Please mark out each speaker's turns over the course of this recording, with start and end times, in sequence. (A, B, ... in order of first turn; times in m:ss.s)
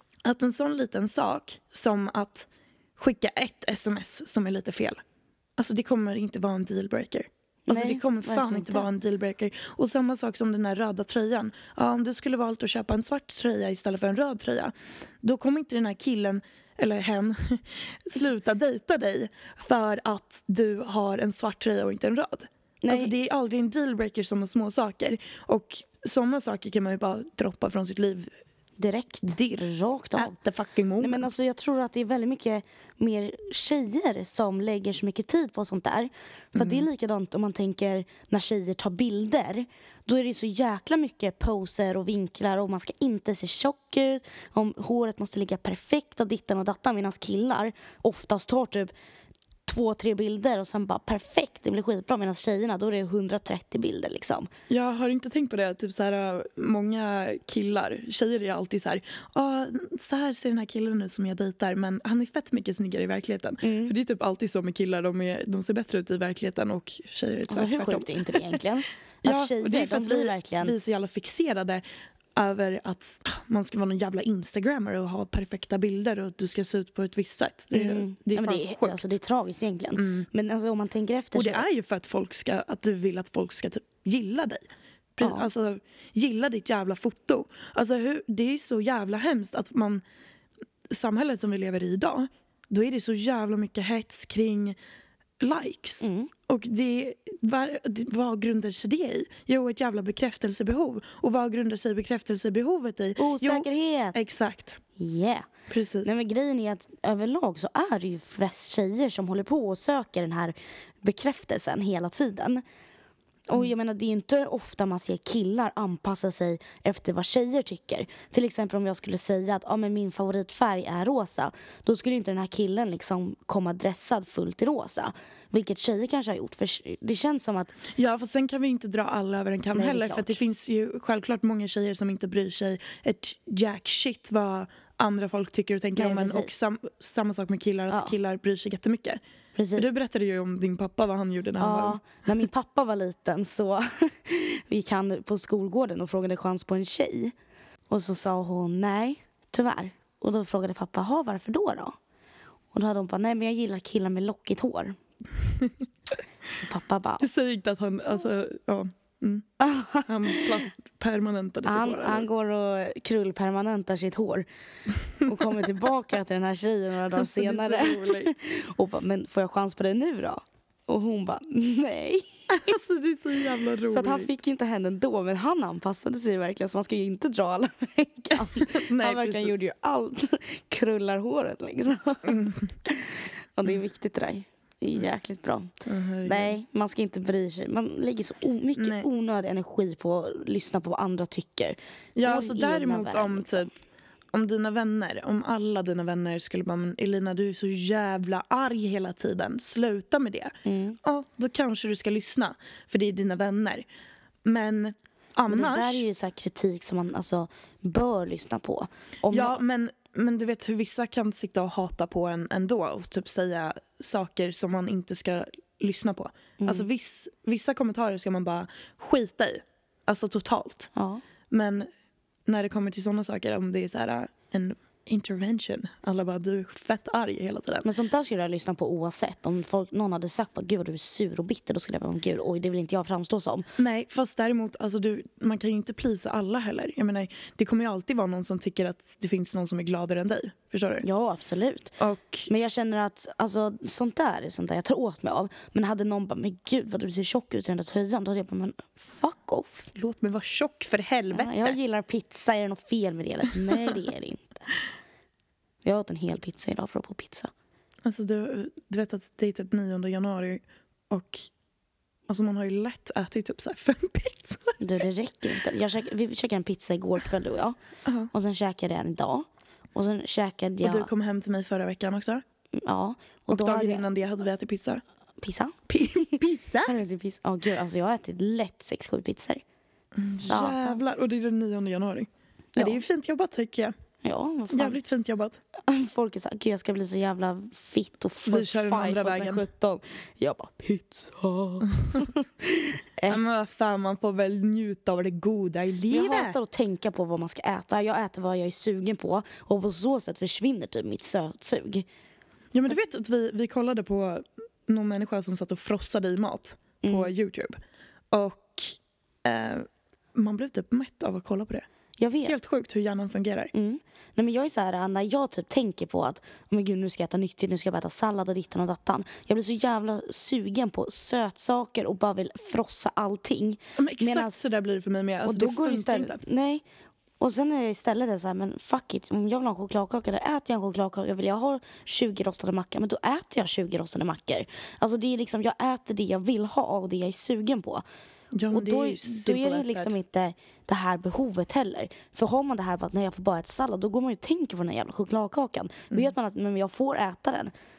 0:00.2-0:05.0 A
0:05.6-0:28.3 A
0:07.7-0:08.9 B
0:22.8-0:23.1 B
0:28.8-0:30.3 B
0:29.3-0:31.3 A
0:31.0-0:48.9 B
0:36.5-0:36.8 A
0:49.6-0:54.5 B
0:54.7-1:08.6 A
1:03.6-1:03.9 B
1:07.5-1:10.7 B
1:09.2-1:11.8 A
1:12.3-1:19.2 A
1:17.7-1:21.6 B
1:20.0-1:20.3 A
1:21.3-1:24.6 A
1:25.2-1:30.0 A
1:25.2-1:25.5 B
1:30.9-1:34.8 A
1:35.4-1:44.8 A
1:36.0-1:36.3 B
1:43.2-1:44.2 B
1:45.0-1:45.5 B
1:45.7-1:46.2 A
1:46.0-1:52.6 B
1:53.5-2:07.8 B
2:07.9-2:19.2 A
2:09.7-2:10.4 B
2:16.0-2:16.5 B
2:19.6-2:19.9 B
2:19.8-2:22.0 A
2:21.6-2:27.3 B
2:27.9-2:32.0 B
2:32.7-2:35.0 B
2:36.5-2:37.3 B
2:37.2-2:39.5 A
2:39.6-2:40.6 B
2:40.0-2:42.3 A
2:41.6-2:44.5 B
2:45.2-2:45.6 A
2:45.2-2:52.8 B
2:47.1-2:48.3 A
2:52.5-2:54.3 A
2:53.8-3:05.7 B
2:58.4-2:59.6 A
3:02.2-3:02.7 A
3:05.8-3:06.6 A
3:06.2-3:13.7 B
3:08.8-3:09.1 A
3:12.2-3:13.7 A
3:14.3-3:23.8 A
3:20.6-3:21.0 B
3:24.4-3:26.0 A
3:25.5-3:29.6 B
3:29.3-3:40.9 A
3:36.6-3:36.9 B
3:40.9-3:41.2 B
3:41.5-3:41.9 A
3:42.5-3:47.9 A
3:47.8-3:53.6 B
3:53.8-4:01.0 A
4:01.0-4:09.9 B
4:02.0-4:02.5 A
4:09.9-4:11.8 A
4:11.3-4:14.7 B
4:15.8-4:17.5 B
4:18.0-4:21.5 A
4:22.3-4:24.8 A
4:24.8-4:27.8 B
4:28.0-4:28.3 A
4:28.3-4:31.1 B
4:30.8-4:32.4 A
4:32.7-4:34.0 B
4:33.5-4:35.0 A
4:35.4-4:36.3 B
4:35.9-4:37.0 A
4:36.8-4:39.6 B
4:40.1-4:43.9 A
4:40.2-4:41.0 B
4:42.8-4:43.0 B
4:44.2-4:45.0 B
4:44.7-4:45.6 A
4:45.8-4:53.4 B
4:48.4-4:49.6 A
4:53.3-4:56.6 A
4:56.1-5:02.0 B
5:02.7-5:07.8 A
5:07.0-5:07.3 B
5:08.3-5:11.8 A
5:12.2-5:12.5 B
5:12.4-5:13.7 A
5:13.7-5:24.6 B
5:24.0-5:26.4 A
5:25.4-5:26.8 B
5:27.4-5:38.0 B
5:38.5-5:40.2 A
5:38.7-5:47.7 B